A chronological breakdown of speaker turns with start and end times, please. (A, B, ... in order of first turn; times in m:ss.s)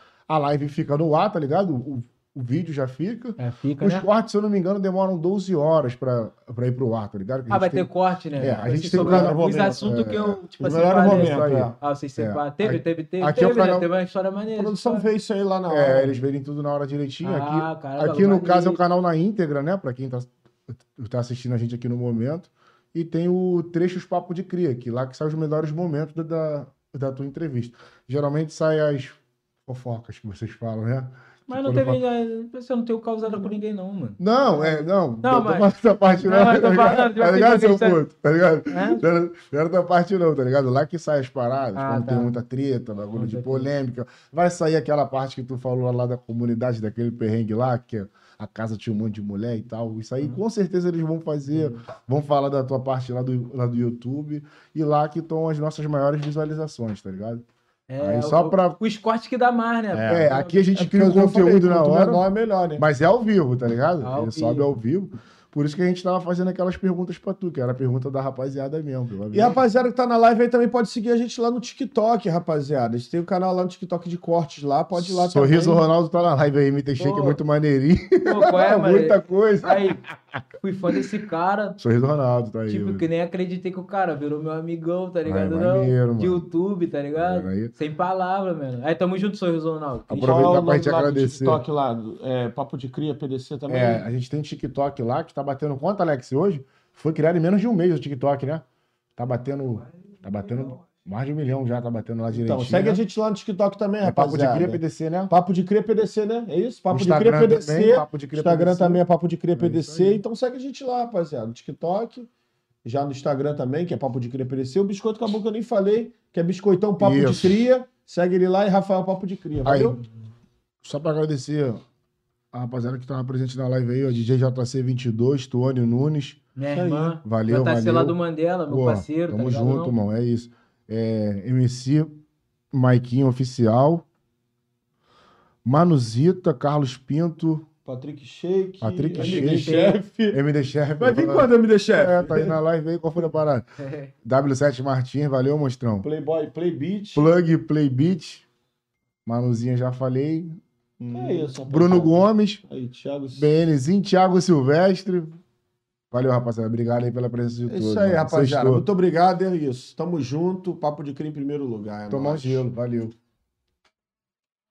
0:00.3-0:13.9 A
0:03.4-0:04.1 B
0:07.5-0:15.1 B
0:08.5-0:09.8 C
0:10.6-0:11.8 C
0:14.5-0:16.2 C
0:15.7-0:32.0 A
0:17.2-0:18.8 B
0:31.5-0:34.2 B
0:34.2-0:57.4 A
0:35.2-0:38.0 B
0:38.7-0:39.0 B
0:41.7-0:42.3 B
0:43.1-0:43.7 B
0:51.5-0:51.8 B
0:57.9-1:00.6 B
0:58.0-0:58.8 A
0:59.9-1:02.8 C
1:00.0-1:02.2 A
1:02.8-1:09.6 A
1:04.0-1:04.7 B
1:09.3-1:15.8 C
1:14.9-1:20.4 A
1:17.0-1:17.4 B
1:18.2-1:20.0 B
1:20.6-1:21.8 B
1:21.8-1:23.0 A
1:22.7-1:30.6 B
1:25.2-1:26.5 A
1:27.2-1:27.7 A
1:30.1-1:31.6 A
1:30.2-1:34.0 C
1:33.7-1:38.6 A
1:39.2-1:43.0 A
1:42.3-1:52.3 C
1:44.0-1:45.3 A
1:46.9-1:50.2 A
1:52.8-2:00.0 C
1:57.0-1:57.6 A
1:59.6-2:00.0 A
2:00.8-2:01.8 A
2:02.5-2:06.4 A
2:06.6-2:09.9 B
2:06.7-2:07.2 C
2:07.2-2:14.0 A
2:15.6-2:17.7 A
2:17.8-2:20.4 C
2:18.8-2:19.8 A
2:19.2-2:20.0 B
2:20.3-2:23.7 A
2:21.0-2:22.6 C
2:23.8-2:24.1 B
2:24.2-2:26.0 A
2:26.0-2:27.2 C
2:27.1-2:28.4 A
2:29.2-2:32.6 A
2:31.0-2:33.5 C
2:33.3-2:35.4 A
2:36.1-2:38.8 A
2:37.7-2:42.6 C
2:42.1-2:43.1 A